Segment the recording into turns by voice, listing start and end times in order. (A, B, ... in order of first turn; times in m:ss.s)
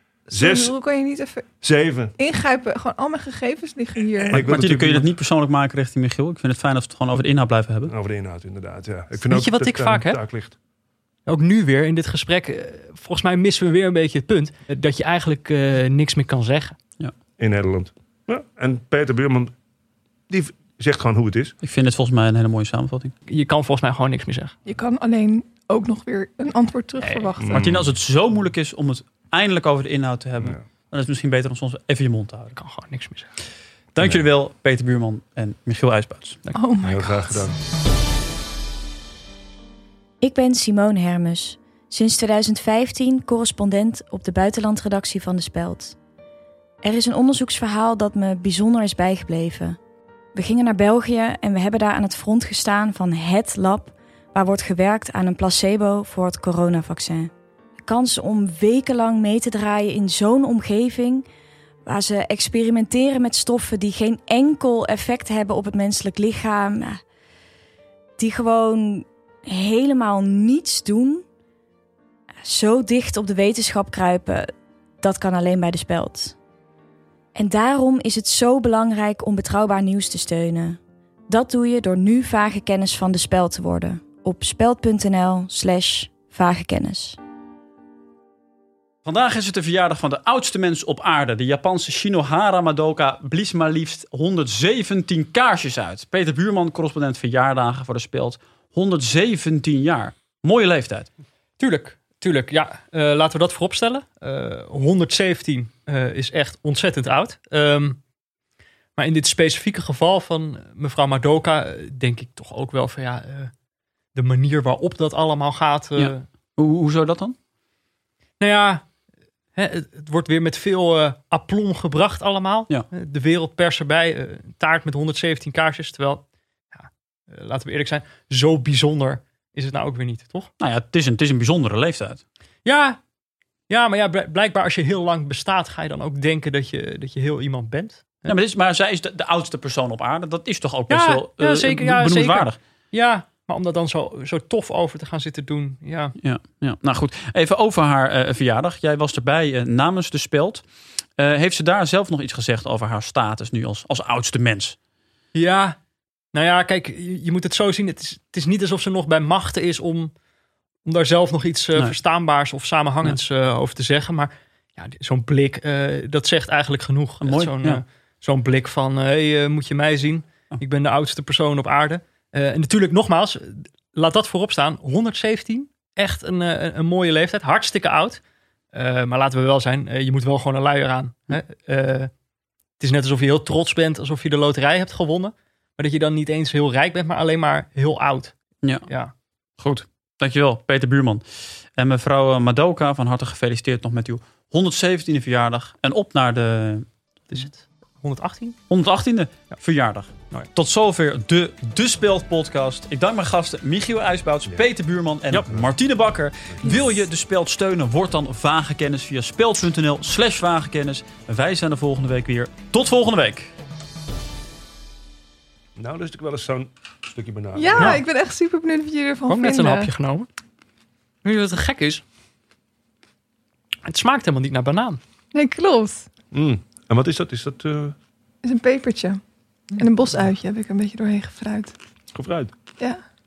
0:00.3-0:01.4 A
0:00.3-0:00.7 B
0:01.6-0:02.1 B
0:02.2-0:04.4 A
0:04.2-0:05.1 B
0:04.3-0:07.9 C
0:07.9-0:10.6 B
0:09.2-0:10.2 D
0:11.2-0:16.8 D
0:17.4-0:19.5 B
0:20.3-0:21.6 B
0:21.6-0:23.1 C
0:23.3-0:24.6 D
0:24.7-0:27.6 A
0:27.0-0:27.3 D
0:27.4-0:27.9 B
0:27.5-0:32.6 C
0:32.6-0:33.3 D
0:33.9-0:36.4 C
0:36.6-0:37.4 A
0:36.8-0:37.6 B
0:40.2-0:45.9 E
0:46.8-0:49.8 E
0:50.4-0:57.3 E
0:57.8-1:01.2 E
1:01.9-1:07.0 E
1:08.2-1:11.2 E
1:12.4-1:14.5 E
1:15.0-1:16.4 E
1:17.4-1:27.2 E
1:29.0-1:41.1 C
1:41.6-1:48.0 D
1:49.0-1:53.5 D
1:54.1-1:56.2 D
1:56.0-1:57.4 C
1:58.4-1:58.9 D
1:59.6-2:10.5 D
2:10.6-2:12.2 C
2:12.6-2:13.0 D
2:13.7-2:18.4 D
2:18.2-2:22.6 C
2:20.9-2:26.1 D
2:26.2-2:30.6 C
2:31.2-2:34.8 C
2:35.3-2:35.8 D
2:36.3-2:40.1 D
2:40.8-2:58.2 D
2:47.2-2:47.8 C
2:58.7-3:02.1 D
3:02.8-3:08.3 D
3:08.9-3:09.1 D
3:09.6-3:11.2 C
3:11.8-3:16.9 C
3:17.3-3:18.6 D
3:18.7-3:33.5 C
3:25.4-3:25.7 B
3:35.8-3:38.0 B
3:37.6-3:39.9 A
3:37.8-3:38.0 D
3:39.3-3:40.3 D
3:41.2-3:42.0 D
3:43.8-3:45.0 D
3:45.3-3:46.1 A
3:46.3-3:47.9 B
3:48.4-3:49.2 A
3:49.7-3:51.7 A
3:52.2-3:52.5 B